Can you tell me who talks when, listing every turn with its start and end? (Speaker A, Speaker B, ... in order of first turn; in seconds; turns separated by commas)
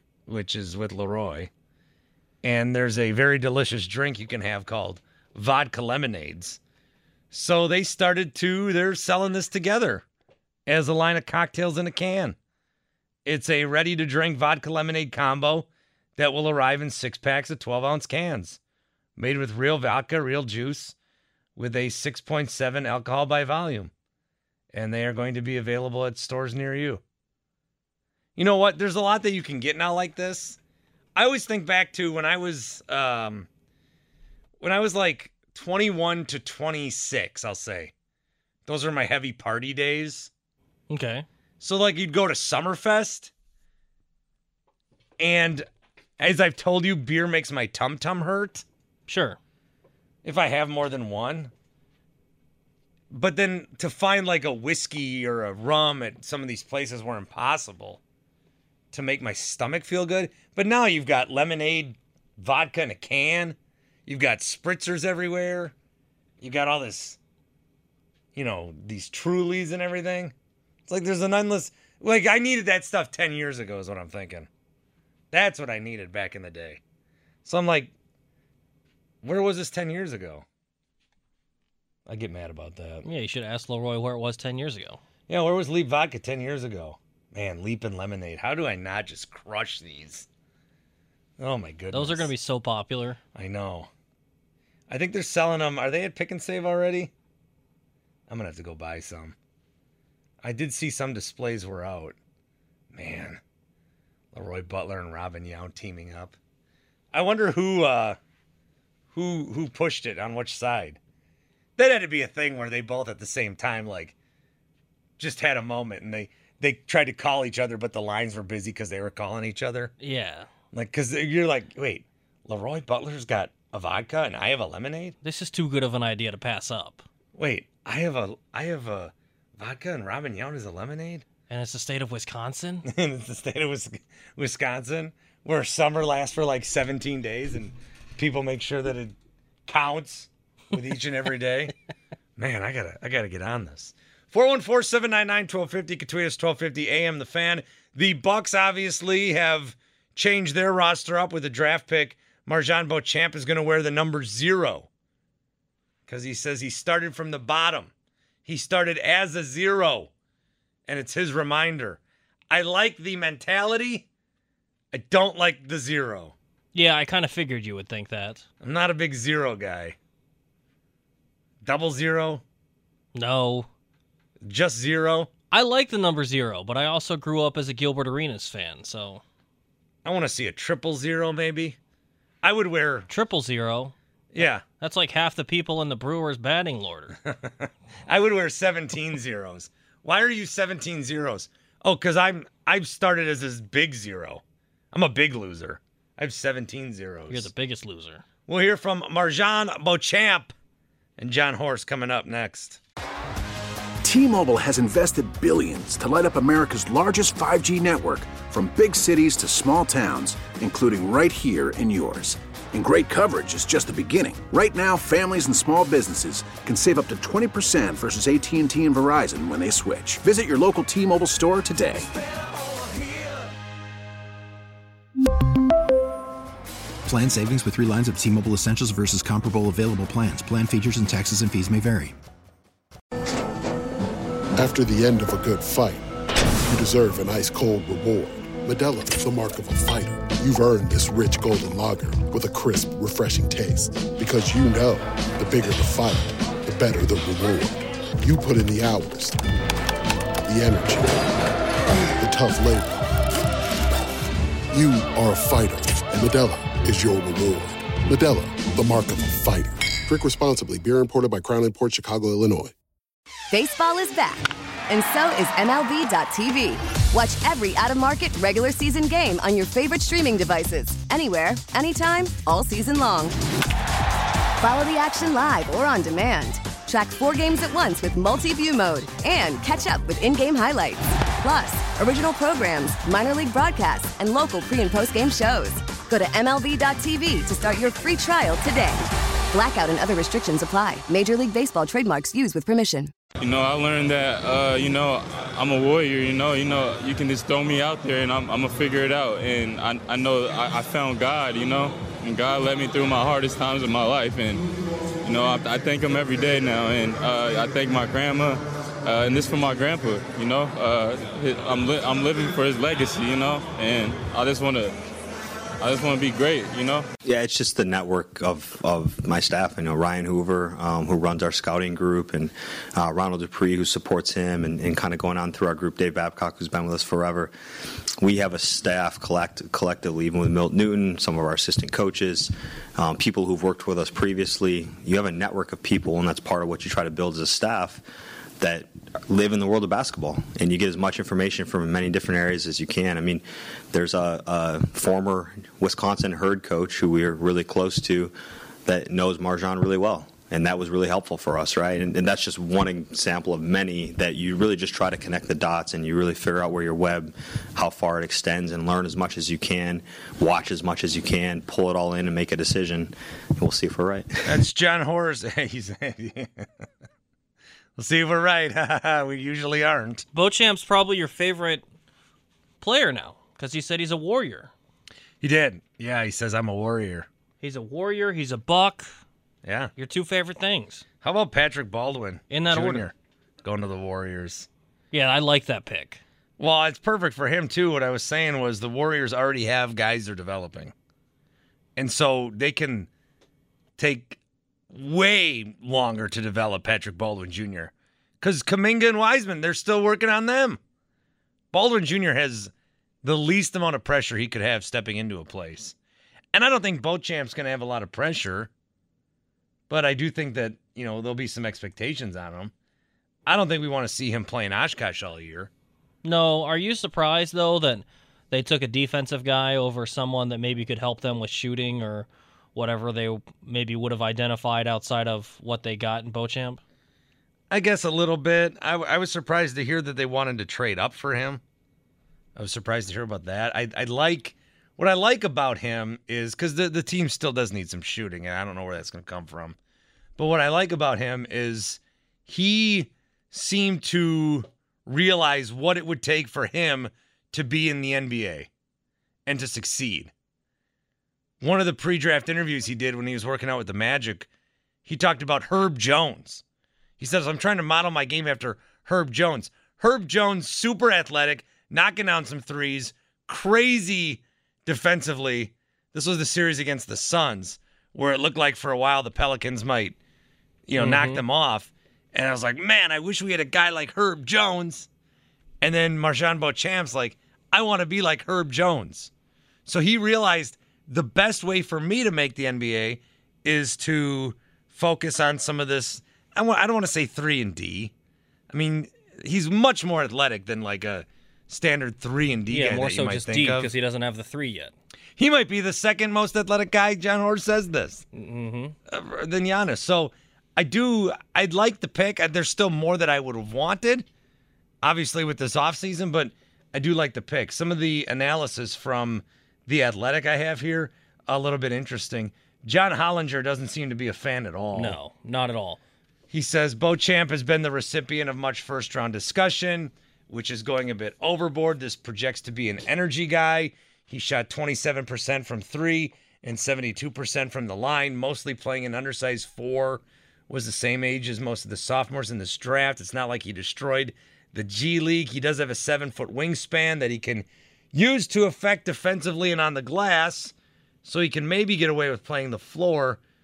Speaker A: 0.3-1.5, Speaker A: 2.4-6.6, Speaker A: 7.3-10.0, Speaker A: 10.7-12.3, Speaker A: 13.2-18.6, Speaker A: 19.1-20.9, Speaker A: 21.6-23.9, Speaker A: 24.7-27.0, Speaker A: 28.4-30.6, Speaker A: 31.1-33.5, Speaker A: 34.6-37.9, Speaker A: 38.6-40.3, Speaker B: 40.9-41.2, Speaker A: 41.6-43.3, Speaker A: 45.2-45.6, Speaker A: 46.2-48.6, Speaker B: 49.1-49.4, Speaker A: 50.2-51.5, Speaker A: 53.1-58.0, Speaker A: 58.9-65.7, Speaker A: 66.4-67.2, Speaker A: 68.3-70.3, Speaker A: 70.9-74.5, Speaker A: 75.3-76.8, Speaker A: 77.4-77.9, Speaker A: 79.2-80.4, Speaker A: 82.0-83.0, Speaker B: 83.0-85.0, Speaker A: 85.3-90.3, Speaker A: 91.4-92.3, Speaker B: 91.9-93.2, Speaker A: 93.3-93.9, Speaker A: 94.9-97.1, Speaker A: 98.3-99.3, Speaker A: 100.4-102.2, Speaker A: 102.9-103.4, Speaker A: 104.3-106.3, Speaker A: 107.1-108.2, Speaker A: 109.1-111.0, Speaker A: 111.8-114.1, Speaker A: 115.2-119.9, Speaker B: 120.0-120.5, Speaker A: 120.7-125.2, Speaker B: 125.2-127.0, Speaker A: 127.3-131.2, Speaker B: 131.5-132.8, Speaker A: 132.9-139.2, Speaker A: 139.7-141.7, Speaker A: 142.4-154.9, Speaker A: 156.1-157.9, Speaker A: 158.4-160.1, Speaker A: 160.9-164.1, Speaker A: 164.9-166.3, Speaker B: 166.7-168.4, Speaker A: 168.6-169.9, Speaker A: 171.6-172.4, Speaker B: 173.1-173.7, Speaker A: 174.4-175.3, Speaker B: 175.5-179.2, Speaker A: 180.0-181.8, Speaker A: 182.4-183.1, Speaker B: 183.1-187.2, Speaker A: 184.3-184.6, Speaker A: 187.3-197.5, Speaker B: 197.3-198.2, Speaker A: 198.5-200.5, Speaker A: 201.2-202.8, Speaker C: 204.0-222.1, Speaker D: 227.0-232.2, Speaker E: 234.6-236.0, Speaker E: 236.7-249.4, Speaker E: 250.5-251.4, Speaker E: 252.2-253.1, Speaker E: 254.7-262.7, Speaker F: 263.5-273.4, Speaker F: 274.6-293.1, Speaker G: 293.4-304.6, Speaker G: 305.2-314.9, Speaker G: 315.8-317.1, Speaker H: 317.2-327.5, Speaker H: 328.2-338.0, Speaker H: 338.6-348.3, Speaker H: 348.9-364.6, Speaker A: 364.4-366.7, Speaker A: 368.0-370.2, Speaker B: 370.3-371.8, Speaker B: 372.8-374.7, Speaker A: 375.4-377.3, Speaker B: 377.6-379.2, Speaker A: 379.6-379.9, Speaker B: 380.0-381.0, Speaker A: 381.2-384.7, Speaker B: 382.5-383.1, Speaker B: 385.1-386.2, Speaker A: 386.6-390.9, Speaker A: 391.9-393.1, Speaker A: 394.0-394.4, Speaker A: 394.9-400.8, Speaker A: 401.7-402.7, Speaker A: 403.2-405.9, Speaker A: 406.5-408.7, Speaker A: 409.9-412.7, Speaker A: 413.4-415.7, Speaker B: 416.2-426.8, Speaker A: 427.7-431.6, Speaker A: 432.6-439.8, Speaker A: 440.4-448.7, Speaker A: 449.4-450.3, Speaker A: 451.6-454.5, Speaker A: 455.1-456.6, Speaker A: 457.2-470.2, Speaker A: 470.9-475.1, Speaker B: 470.9-471.4, Speaker A: 475.8-479.3, Speaker A: 479.9-488.1, Speaker A: 488.7-493.9, Speaker B: 492.7-494.9, Speaker A: 495.4-498.2, Speaker B: 498.3-498.9, Speaker A: 499.1-504.2, Speaker A: 505.0-515.2, Speaker B: 514.9-516.0, Speaker A: 516.5-543.4